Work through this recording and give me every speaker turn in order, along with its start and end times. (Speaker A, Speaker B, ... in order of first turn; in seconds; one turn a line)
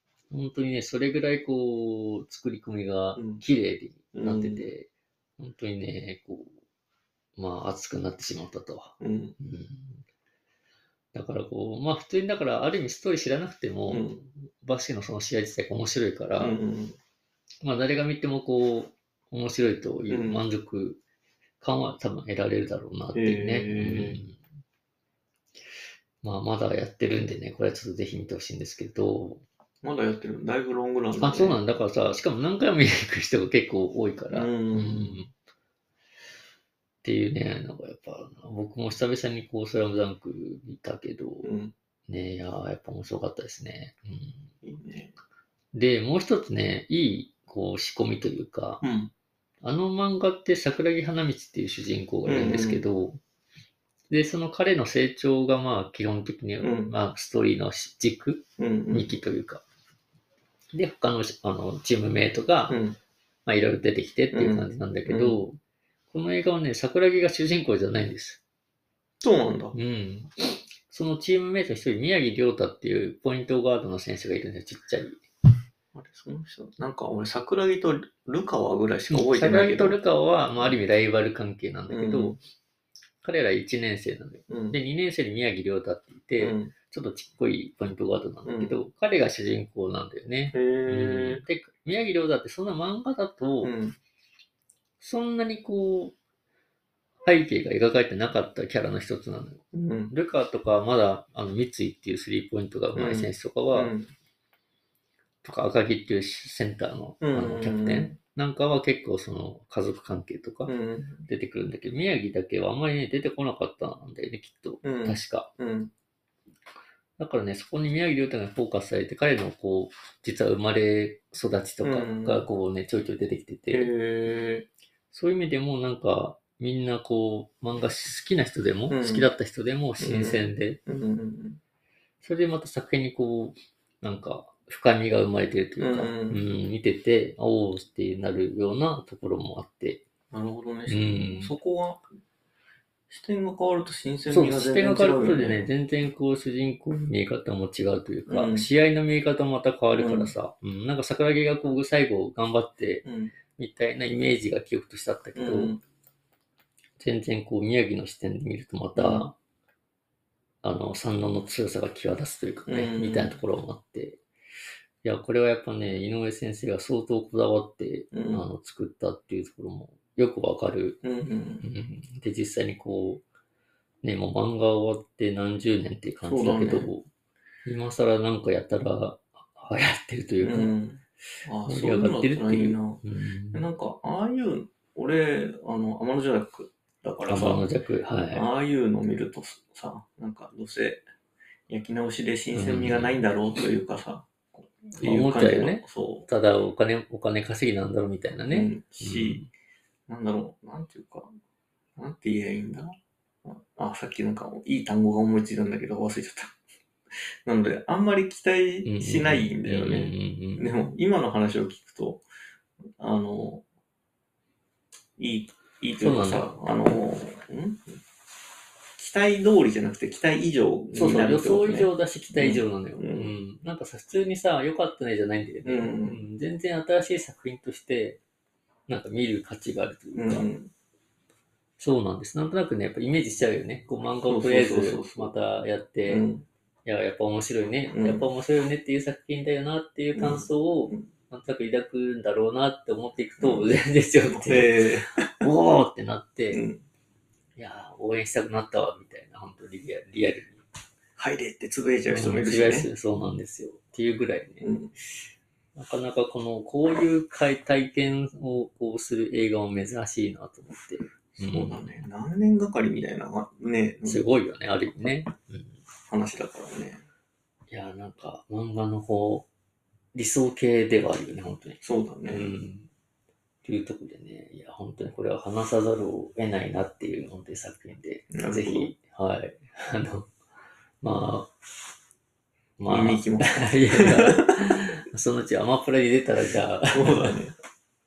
Speaker A: 0.3-6.5
Speaker B: 3.1-3.4
Speaker B: 4.1-4.7
Speaker A: 7.4-10.0
Speaker B: 9.0-9.3
Speaker A: 11.1-16.6
Speaker B: 13.9-14.2
Speaker B: 16.4-17.0
Speaker A: 17.6-21.0
Speaker B: 20.1-20.4
Speaker A: 21.6-24.4
Speaker B: 23.1-24.2
Speaker A: 26.2-29.4
Speaker B: 29.8-31.6
Speaker A: 31.1-35.3
Speaker B: 34.3-35.2
Speaker A: 37.0-41.5
Speaker B: 41.4-41.7
Speaker A: 42.1-44.5
Speaker B: 44.6-45.1
Speaker A: 45.7-48.8
Speaker B: 48.8-49.1
Speaker A: 49.6-53.2
Speaker B: 52.2-52.8
Speaker A: 54.1-59.6
Speaker B: 56.6-56.9
Speaker B: 58.6-59.1
Speaker A: 60.7-62.8
Speaker B: 62.7-63.0
Speaker A: 63.5-65.6
Speaker B: 64.3-65.4
Speaker A: 66.1-68.4
Speaker B: 69.2-69.8
Speaker A: 69.7-75.2
Speaker B: 75.9-80.0
Speaker A: 79.1-82.4
Speaker B: 81.9-82.4
Speaker A: 83.2-93.7
Speaker B: 84.5-84.8
Speaker B: 86.4-86.7
Speaker B: 88.4-88.8
Speaker B: 90.5-91.4
Speaker B: 93.6-94.0
Speaker A: 95.0-96.2
Speaker A: 97.2-103.9
Speaker B: 99.7-100.1
Speaker B: 103.0-104.1
Speaker A: 105.4-110.7
Speaker B: 107.2-108.2
Speaker B: 110.7-111.3
Speaker A: 111.3-115.5
Speaker B: 114.8-115.9
Speaker A: 117.2-123.9
Speaker B: 121.8-122.5
Speaker B: 123.7-124.7
Speaker A: 125.1-130.8
Speaker B: 128.9-129.3
Speaker B: 130.0-131.6
Speaker A: 132.2-140.0
Speaker B: 135.8-136.4
Speaker B: 140.3-142.0
Speaker A: 140.9-141.5
Speaker B: 143.1-145.7
Speaker A: 144.3-155.8
Speaker B: 148.3-148.7
Speaker B: 149.9-150.3
Speaker B: 153.0-153.3
Speaker B: 155.3-155.8
Speaker A: 157.0-159.3
Speaker B: 158.9-159.2
Speaker A: 160.6-164.2
Speaker B: 162.7-163.3
Speaker A: 165.0-171.0
Speaker B: 168.1-168.4
Speaker B: 171.0-171.7
Speaker A: 171.6-173.2
Speaker A: 174.0-177.1
Speaker B: 176.2-176.9
Speaker A: 177.7-180.7
Speaker B: 180.4-187.7
Speaker A: 181.7-183.7
Speaker A: 187.3-188.4
Speaker B: 188.3-191.0
Speaker B: 191.7-196.3
Speaker A: 192.5-193.2
Speaker A: 194.9-199.5
Speaker B: 198.5-199.4
Speaker B: 200.1-201.3
Speaker B: 202.0-206.6
Speaker B: 207.4-212.2
Speaker A: 208.8-210.7
Speaker B: 213.0-213.6
Speaker B: 215.2-218.0
Speaker A: 216.0-216.5
Speaker B: 219.0-223.3
Speaker A: 220.9-228.2
Speaker B: 225.7-226.2
Speaker A: 228.9-230.5
Speaker B: 230.1-230.7
Speaker A: 231.8-236.3
Speaker B: 234.3-235.3
Speaker B: 236.1-236.4
Speaker A: 236.8-244.8
Speaker B: 237.9-238.3
Speaker B: 240.2-241.1
Speaker B: 243.4-243.7
Speaker B: 244.3-245.4
Speaker A: 245.4-246.6
Speaker B: 246.5-246.8
Speaker A: 247.6-250.6
Speaker B: 251.2-252.9
Speaker A: 252.1-254.7
Speaker B: 254.6-254.9
Speaker A: 255.7-262.1
Speaker B: 261.4-264.2
Speaker A: 264.1-265.8
Speaker B: 266.1-267.1
Speaker A: 267.7-269.5
Speaker A: 270.1-272.9
Speaker B: 271.8-272.5
Speaker A: 273.6-280.3
Speaker B: 278.3-278.9
Speaker A: 281.0-281.5
Speaker A: 282.8-287.4
Speaker B: 282.9-284.6
Speaker B: 286.9-287.5